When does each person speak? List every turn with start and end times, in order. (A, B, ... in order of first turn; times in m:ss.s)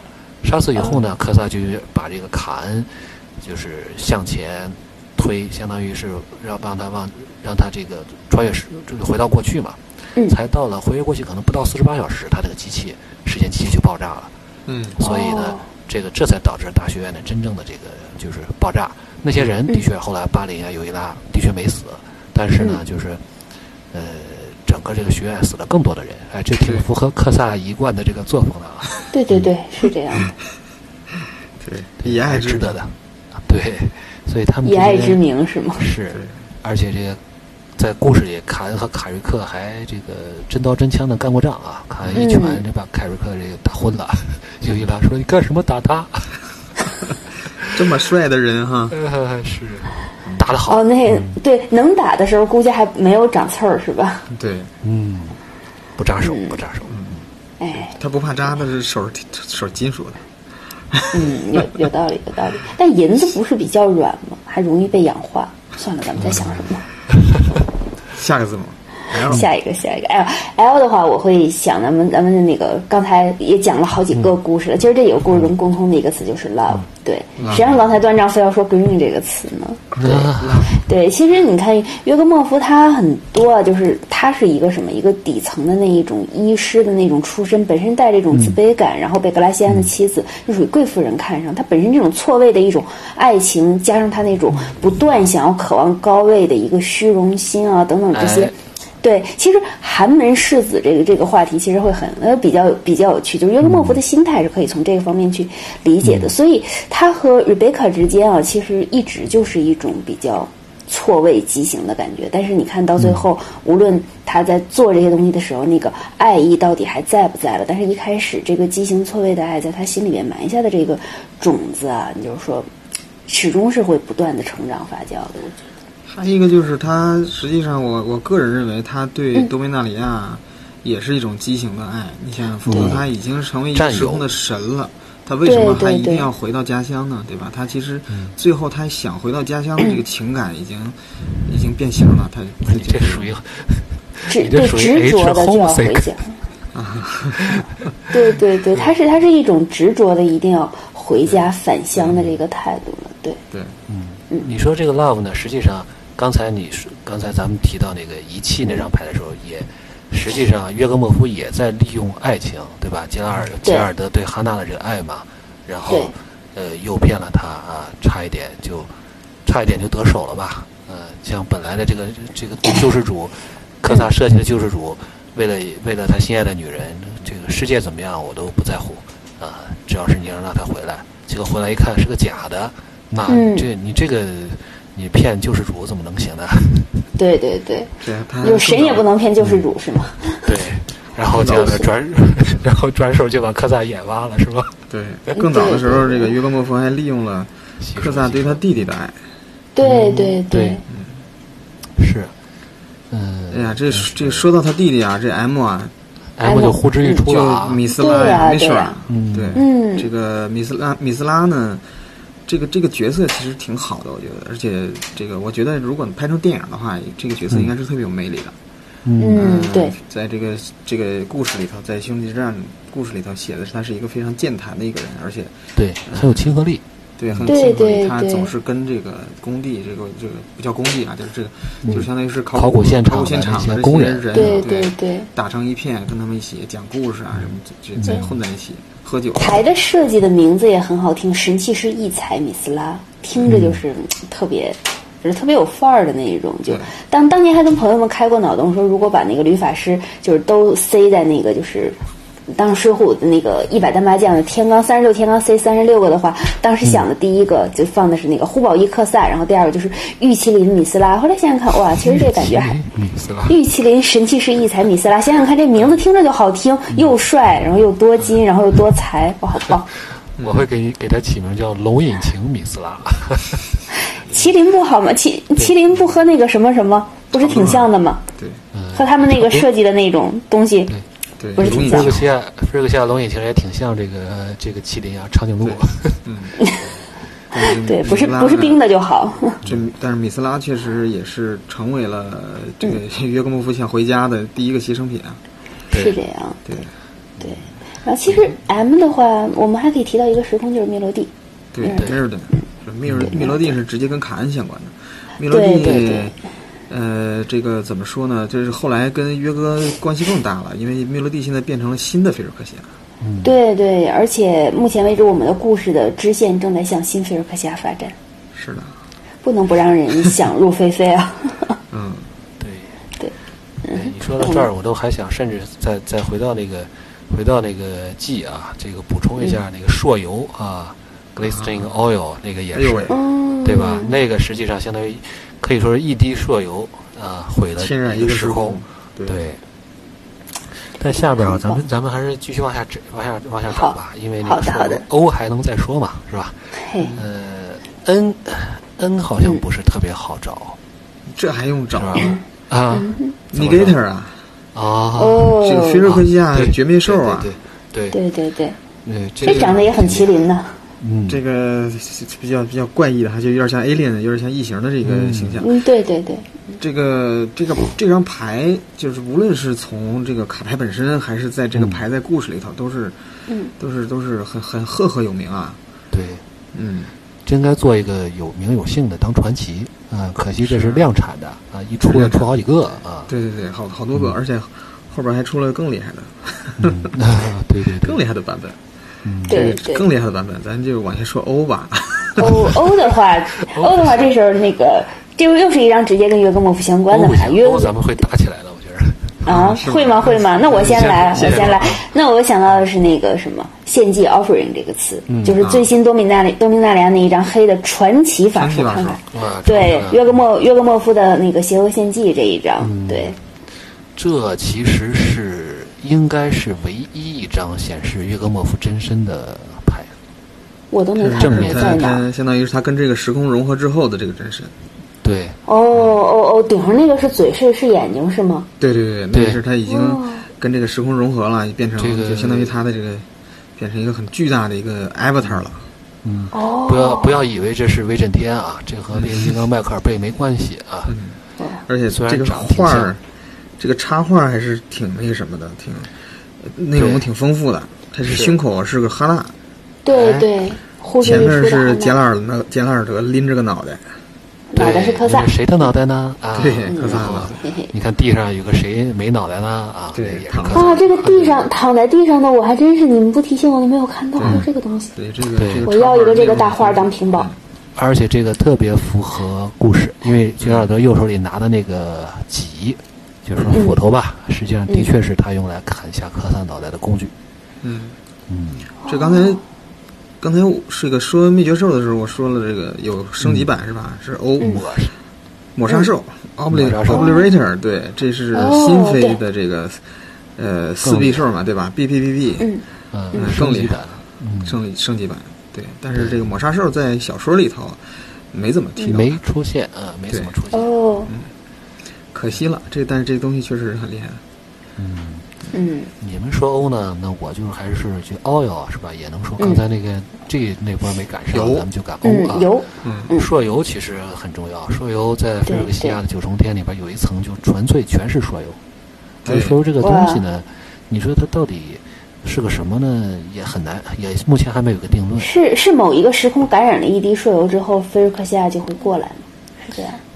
0:00.4-0:14.3 A
0:14.7-0:15.0 B
0:14.9-0:23.2 A
0:15.0-0:15.6 C
0:23.9-0:29.5 A
0:26.6-0:26.9 B
0:29.1-0:30.3 C
0:31.6-0:32.8 B
0:32.0-0:35.2 A
0:34.6-0:35.8 C
0:35.8-0:37.2 A
0:37.8-0:46.3 A
0:42.0-0:42.2 B
0:42.1-0:42.6 C
0:47.6-0:49.0 B
0:48.9-0:51.3 A
0:50.7-0:54.3 C
0:54.3-0:54.7 B
0:54.8-0:55.4 A
0:56.0-0:57.1 A
0:56.2-0:56.6 C
0:56.9-0:57.2 B
0:57.6-0:57.9 C
0:57.8-1:00.2 B
1:00.9-1:01.6 B
1:01.1-1:06.8 C
1:06.2-1:06.6 A
1:08.1-1:09.4 B
1:09.2-2:02.7 C
1:17.4-1:17.8 B
1:20.0-1:20.7 A
1:20.4-1:20.7 B
1:28.3-1:28.6 A
1:38.1-1:38.5 A
1:43.6-1:44.0 A
1:46.0-1:46.3 A
1:53.0-1:53.2 A
2:03.3-2:05.6 C
2:06.1-2:23.3 B
2:12.6-2:13.0 A
2:12.7-2:13.0 C
2:13.7-2:14.3 A
2:15.4-2:16.3 C
2:22.6-2:26.1 A
2:24.3-2:26.3 C
2:26.7-2:27.6 B
2:28.1-2:33.4 C
2:32.0-2:32.2 B
2:33.5-2:33.8 B
2:33.9-2:48.9 A
2:43.6-2:43.9 C
2:45.9-2:46.1 C
2:49.4-3:07.0 A
3:03.3-3:03.7 C
3:07.2-3:10.5 C
3:08.0-3:09.0 B
3:10.4-3:14.7 A
3:11.3-3:11.8 B
3:11.4-3:11.8 C
3:14.9-3:19.1 B
3:15.3-3:16.3 C
3:17.8-3:18.6 A
3:19.8-3:20.8 C
3:19.8-3:20.8 A
3:20.9-3:21.2 B
3:22.0-3:22.3 A
3:23.1-3:24.4 A
3:23.5-3:25.9 B
3:26.4-3:27.8 A
3:26.4-3:27.2 C
3:27.2-3:31.8 B
3:27.9-3:28.9 C
3:29.1-3:29.6 A
3:29.5-3:30.1 C
3:32.5-3:38.6 B
3:39.0-3:39.5 A
3:39.2-3:39.9 C
3:39.3-3:45.5 B
3:45.8-3:47.5 A
3:46.1-3:46.5 B
3:47.2-3:59.7 B
3:47.4-3:48.5 C
3:51.8-3:54.7 A
3:54.3-3:55.3 C
3:58.0-3:58.3 A
3:59.4-4:12.0 C
4:03.4-4:03.8 A
4:12.5-4:22.8 C
4:22.0-4:23.6 A
4:23.5-4:29.9 C
4:30.4-4:30.7 B
4:30.4-4:33.6 A
4:34.2-4:38.2 C
4:37.4-4:38.6 B
4:38.7-4:39.7 A
4:38.9-4:40.9 C
4:41.4-4:42.3 B
4:41.6-4:42.1 C
4:41.6-4:46.2 A
4:45.6-4:46.6 B
4:46.6-4:46.8 C
4:47.5-4:48.8 B
4:47.6-4:49.6 C
4:49.6-4:55.4 B
4:55.9-4:56.2 A
4:55.9-4:56.6 C
4:57.4-5:01.3 C
5:01.7-5:06.4 B
5:01.8-5:02.1 C
5:01.9-5:02.2 A
5:03.1-5:03.4 A
5:03.3-5:03.8 C
5:05.5-5:06.3 C
5:06.9-5:12.9 B
5:13.2-5:13.5 A
5:13.4-5:18.1 C
5:18.5-5:18.9 B
5:19.4-5:21.8 C
5:21.9-5:22.3 B
5:22.6-5:23.0 A
5:23.2-5:24.7 C
5:23.9-5:39.6 A
5:31.4-5:31.9 B
5:32.7-5:33.2 B
5:33.1-5:34.1 C
5:37.8-5:39.4 B
5:41.0-5:46.6 A
5:41.1-5:41.8 C
5:43.7-5:45.0 C
5:46.8-5:47.1 C
5:47.0-5:47.2 B
5:47.1-5:50.8 A
5:51.3-5:52.4 B
5:51.9-5:54.0 A
5:52.9-5:53.3 C
5:53.5-5:54.4 B
5:54.7-5:58.2 A
5:55.2-5:56.0 C
5:55.6-5:57.5 B
5:58.1-5:58.8 C
5:59.0-6:00.4 A
5:59.4-6:00.8 C
5:59.4-5:59.8 B
6:01.0-6:01.4 A
6:01.3-6:05.7 B
6:05.0-6:05.6 A
6:05.6-6:06.6 C
6:06.8-6:13.2 B
6:11.7-6:12.0 A
6:13.8-6:15.8 B
6:16.1-6:16.4 A
6:16.7-6:17.1 B
6:17.4-6:23.3 A
6:20.6-6:21.1 B
6:22.0-6:22.5 B
6:23.2-6:27.2 B
6:26.8-6:28.2 A
6:27.9-6:28.8 B
6:29.2-6:29.6 A
6:29.4-6:32.7 B
6:29.5-6:30.0 C
6:32.4-6:38.0 C
6:32.4-6:32.8 A
6:33.7-6:34.3 A
6:37.1-6:39.5 A
6:39.4-6:53.4 C
6:39.5-6:42.0 B
6:40.9-6:42.0 A
6:45.3-6:45.9 A
6:48.6-6:49.2 B
6:49.3-6:50.4 A
6:52.8-6:53.4 A
6:54.2-7:00.1 A
7:00.9-7:02.2 C
7:01.2-7:04.7 B
7:01.4-7:02.1 A
7:05.2-7:05.6 A
7:05.7-7:08.7 C
7:08.8-7:13.2 B
7:09.3-7:09.6 A
7:09.8-7:10.4 C
7:12.0-7:12.8 A
7:13.8-7:15.8 B
7:16.2-7:21.2 A
7:16.5-7:17.4 C
7:19.1-7:19.5 B
7:21.1-7:23.2 B
7:22.1-7:23.1 A
7:23.8-7:26.1 B
7:26.6-7:29.5 B
7:27.0-7:27.3 A
7:28.2-7:28.6 A
7:30.0-7:32.1 C
7:30.1-7:30.5 A
7:31.2-7:34.0 B
7:34.7-7:35.6 C
7:34.8-7:41.4 A
7:36.5-7:37.6 B
7:36.9-7:37.9 C
7:40.1-7:41.6 B
7:40.7-7:45.1 C
7:44.4-7:47.6 B
7:45.6-7:45.9 A
7:45.8-7:47.5 C
7:48.0-7:57.3 A
7:50.6-7:50.9 B
7:53.5-7:53.8 B
7:53.7-7:54.0 C
7:57.8-7:58.2 B
7:58.5-7:58.9 A
7:59.0-7:59.6 C
7:59.0-7:59.6 B
8:00.4-8:05.0 B
8:03.4-8:03.7 A
8:04.6-8:05.1 A
8:05.7-8:10.0 B
8:06.7-8:07.4 A
8:07.1-8:07.5 C
8:08.5-8:09.4 C
8:10.6-8:12.7 B
8:11.0-8:11.4 A
8:12.6-8:13.6 C
8:13.1-8:14.8 A
8:13.4-8:18.0 B
8:16.1-8:16.5 A
8:18.5-8:19.4 B
8:19.0-8:20.9 A
8:20.3-8:20.5 B
8:20.7-8:21.3 C
8:22.3-8:24.4 B
8:25.0-8:25.5 A
8:25.7-8:26.1 C
8:26.2-8:32.7 A
8:31.5-8:31.9 B
8:32.2-8:33.5 C
8:33.0-8:33.3 B
8:33.3-8:38.8 A
8:35.7-8:36.2 C
8:39.4-8:39.8 B
8:39.4-8:45.5 A
8:40.0-8:40.4 C
8:45.4-8:50.2 C